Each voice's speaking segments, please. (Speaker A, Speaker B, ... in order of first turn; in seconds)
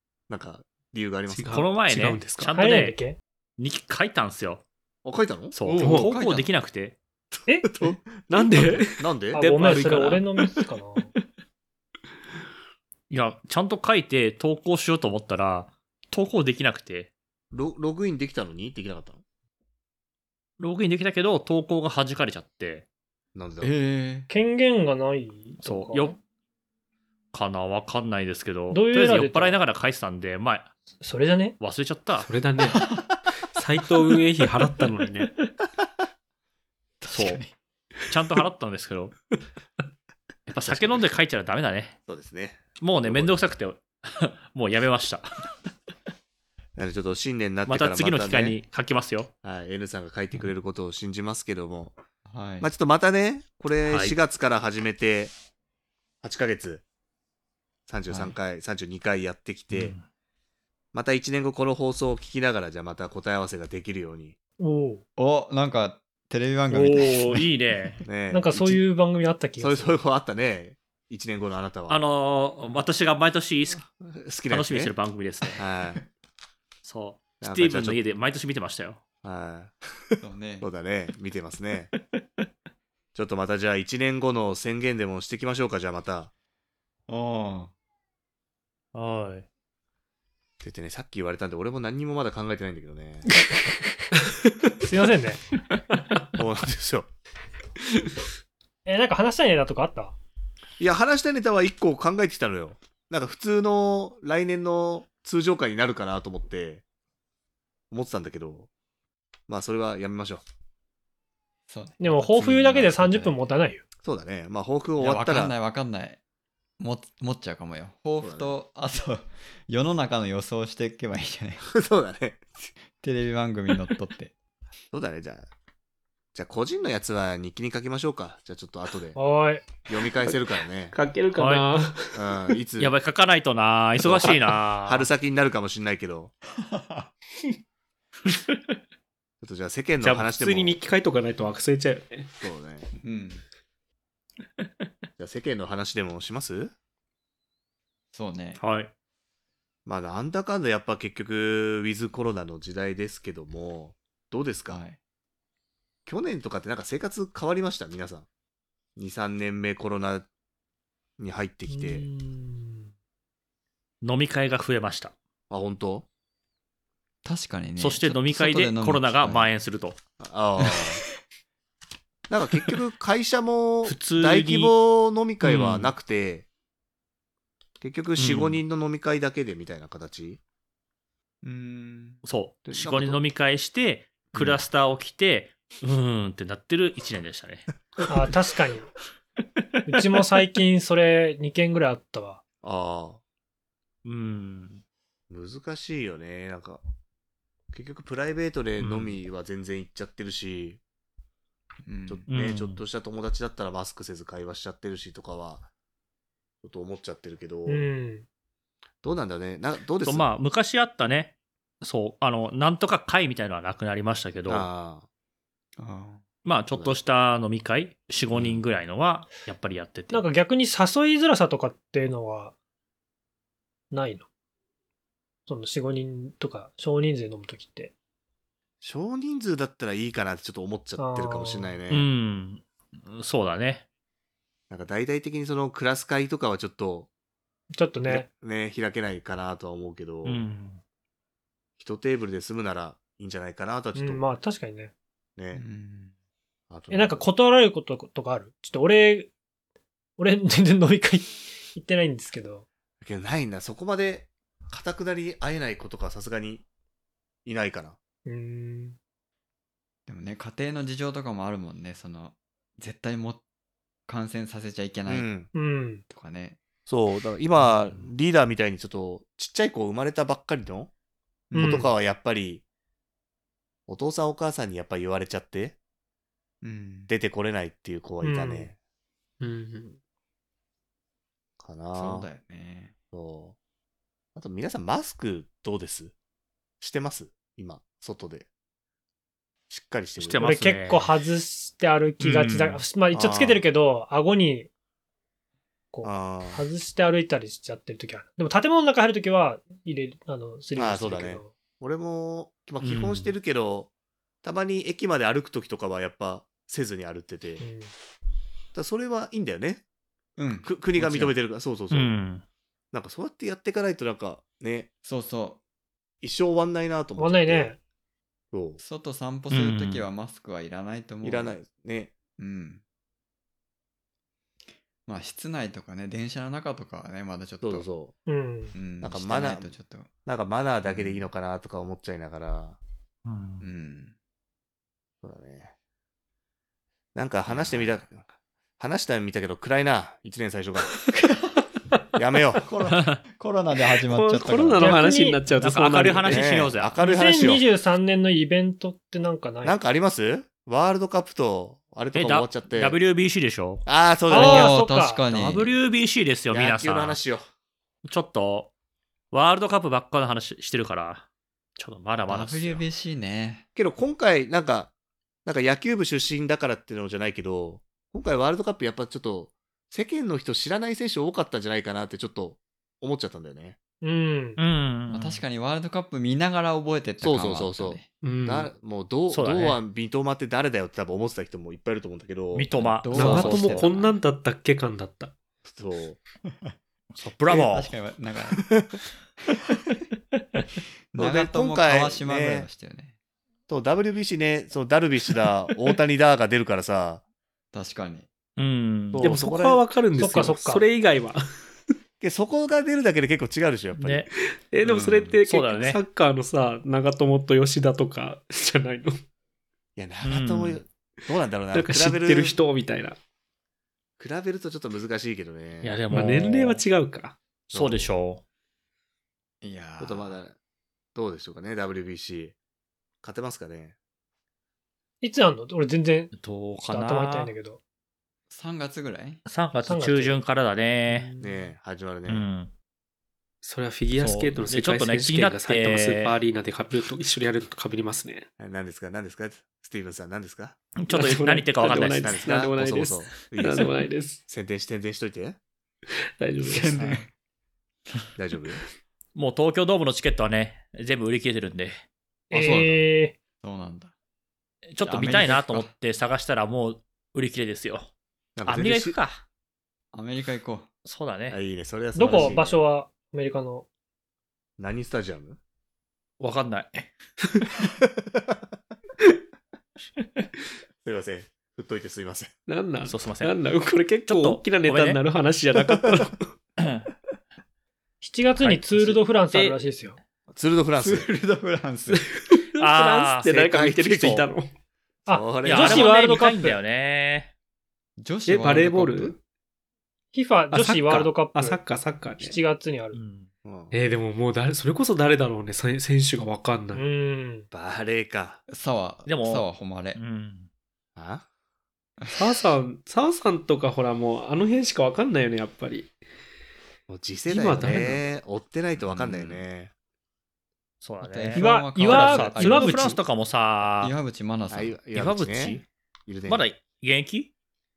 Speaker A: 0.3-1.7, 5.0-6.0, 7.3-9.4, 17.5-19.2, 23.3-23.7, 40.6-41.0, 42.1-43.5, 46.8-48.6, 49.4-52.0, 52.6-55.3, 56.2-56.8, 57.9-59.9, 60.9-64.3, 68.0-68.8, 69.6-72.0, 74.0-74.9, 75.6-76.0, 77.4-78.0, 79.2-81.9, 83.1-86.3, 90.6-93.3, 96.3-97.1, 100.8-106.8, 107.9-108.7, 109.5-110.4, 114.0-115.5, 118.2-118.5, 121.7-122.4, 124.9-125.5, 126.3-129.2, 129.9-130.9, 132.1-132.9, 134.0-136.3, 139.4-140.8, 142.4-142.9, 145.2-146.7, 149.8-154.8, 156.1-158.2, 159.0-160.3, 161.2-162.1, 165.5-166.1, 170.2-171.0, 172.3-176.5, 177.8-180.4, 182.7-183.2, 192.6-193.2, 195.3-196.8, 197.7-200.8, 202.1-205.7, 206.6-207.8, 209.0-210.3, 214.5-215.0, 218.3-218.6, 228.8-232.1, 234.7-237.1, 238.0-240.4, 241.8-244.2, 245.4-245.6, 246.7-247.2, 253.0-256.6, 257.4-258.0, 265.1-265.5, 266.9-270.9, 271.6-272.6, 273.9-275.8, 277.1-278.8, 281.6-282.3, 283.1-283.6, 284.3-286.1, 286.8-288.5, 289.7-290.5, 293.1-293.6, 296.0-296.6, 300.8-303.9, 304.4-307.7, 308.7-309.8, 310.6-312.1, 312.9-314.9, 316.2-317.7, 318.5-318.8, 321.2-322.1, 327.6-328.1, 329.0-329.7, 330.2-332.8, 335.2-335.7, 337.1-338.2, 338.8-340.9, 342.1-342.6, 346.3-347.6, 349.6-352.9, 353.9-354.8, 356.5-357.4, 363.8-364.9, 365.4-373.8, 377.2-382.9, 385.6-386.2, 388.7-389.0, 391.1-392.7, 393.7-397.2, 399.1-399.8, 402.2-404.3, 409.9-412.6, 414.2-416.0, 417.7-418.1, 420.0-420.6, 421.1-422.5, 423.2-423.9, 431.4-432.4, 438.6-440.8, 442.1-445.6, 448.4-448.8, 452.5-453.0, 458.6-459.2, 461.5-462.8, 464.8-465.6, 471.0-472.5, 480.5-481.3, 483.4-484.5, 485.3-486.1, 493.6-494.0, 497.7-498.6, 501.1-501.4, 507.1-509.9, 514.7-516.6
Speaker B: 1.3-2.6, 5.8-6.1, 8.3-10.2, 32.2-32.9, 33.5-35.3, 94.2-94.8, 130.9-132.2, 140.0-142.4, 279.4-280.0, 344.0-346.5, 378.2-378.7, 383.1-385.3, 399.2-401.4, 404.7-409.2, 411.7-413.2, 416.1-417.4, 431.1-431.6, 433.6-438.5, 441.1-444.4, 446.4-447.0, 472.7-476.5, 482.1-484.7, 488.4-489.4, 490.7-492.6, 493.9-497.0, 502.3-506.1, 507.5-508.2
Speaker C: 1.5-3.0, 3.6-4.6, 5.5-7.0, 13.1-17.1, 20.6-22.8, 25.6-26.2, 27.3-30.7, 31.6-32.3, 37.1-37.4, 38.1-39.1, 40.5-42.0, 42.8-45.4, 47.7-49.3, 53.8-54.1, 59.7-60.0, 66.7-68.0, 71.9-73.8, 74.5-75.6, 76.8-79.0, 88.9-89.5, 131.3-131.7, 132.8-135.1, 148.6-148.9, 164.0-165.1, 167.8-170.0, 173.8-174.7, 175.4-175.9, 178.2-178.6, 182.2-188.1, 189.9-190.2, 194.0-194.8, 198.8-199.2, 202.3-202.8, 210.0-214.7, 216.4-220.3, 231.9-233.8, 240.2-240.8, 290.2-291.1, 292.2-292.8, 302.8-303.3, 311.9-312.4, 319.5-320.1, 333.2-333.6, 342.9-343.2, 345.6-346.9, 352.1-353.9, 355.3-357.2, 358.0-358.7, 359.3-361.2, 361.8-362.8, 374.6-375.4, 379.3-379.8, 382.5-383.9, 387.1-387.9, 398.6-399.3, 404.0-404.3, 404.9-406.0, 410.2-410.8, 415.8-416.8, 417.7-418.4, 426.3-427.5, 429.5-431.3, 432.3-432.7, 434.3-436.4, 441.0-442.4, 449.3-452.0, 454.9-458.1, 458.6-459.4, 461.0-461.6, 466.4-467.1, 473.1-473.5, 474.2-475.2, 476.8-477.1, 478.6-479.8, 482.8-483.5, 485.6-487.5, 493.1-493.5, 499.2-500.7, 511.0-514.1, 515.1-515.8, 516.5-517.5
Speaker D: 2.5-3.2, 7.5-7.8, 9.3-11.1, 24.3-26.2, 28.7-29.6, 31.0-31.5, 64.6-65.0, 68.3-70.0, 94.8-95.4, 98.8-100.2, 112.0-113.8, 129.1-129.7, 161.7-162.9, 188.1-188.9, 189.9-192.4, 207.7-208.2, 220.1-222.5, 223.9-224.2, 225.5-227.9, 231.0-231.7, 237.7-238.3, 243.9-244.9, 246.9-249.3, 250.2-252.7, 258.2-259.0, 265.5-266.0, 271.5-271.9, 278.2-278.7, 290.4-294.7, 295.9-301.5, 307.6-307.9, 317.2-317.8, 328.3-328.7, 344.8-345.4, 347.0-349.8, 354.3-355.2, 374.0-374.6, 400.2-400.9, 425.2-426.3, 426.9-427.8, 429.9-430.4, 452.5-453.3, 462.1-463.9, 478.2-480.2, 485.3-486.8, 490.3-491.8, 492.4-493.2, 496.9-497.6, 511.6-513.2
Speaker E: 5.8-6.5, 23.6-24.3, 32.7-33.0, 37.0-37.5, 52.2-52.7, 58.1-58.4, 65.2-67.4, 80.2-80.7, 87.1-87.7, 111.7-113.3, 115.0-116.2, 116.8-121.6, 122.9-124.3, 136.5-137.1, 143.0-143.4, 148.1-148.6, 154.7-155.0, 167.2-169.5, 181.4-182.2, 201.8-202.2, 215.8-216.2, 245.5-246.1, 260.1-263.4, 264.1-265.3, 266.1-266.6, 267.6-268.0, 271.5-271.8, 276.6-277.1, 281.9-282.9, 310.4-311.3, 315.0-315.6, 318.8-321.5, 322.4-322.8, 325.1-327.9, 328.7-330.1, 330.8-331.2, 333.6-334.1, 337.4-338.1, 341.2-341.6, 342.6-345.0, 354.3-355.7, 362.3-363.6, 375.1-378.1, 383.0-384.1, 386.5-386.7, 387.5-388.7, 391.1-393.1, 397.7-398.3, 419.6-420.4, 428.5-429.4, 434.2-434.5, 446.6-447.3, 453.6-454.1, 455.0-455.9, 460.1-460.9, 481.0-482.2, 488.2-489.4, 498.7-500.2, 502.2-502.5, 507.8-508.2, 509.0-509.6, 511.2-513.2, 514.0-515.0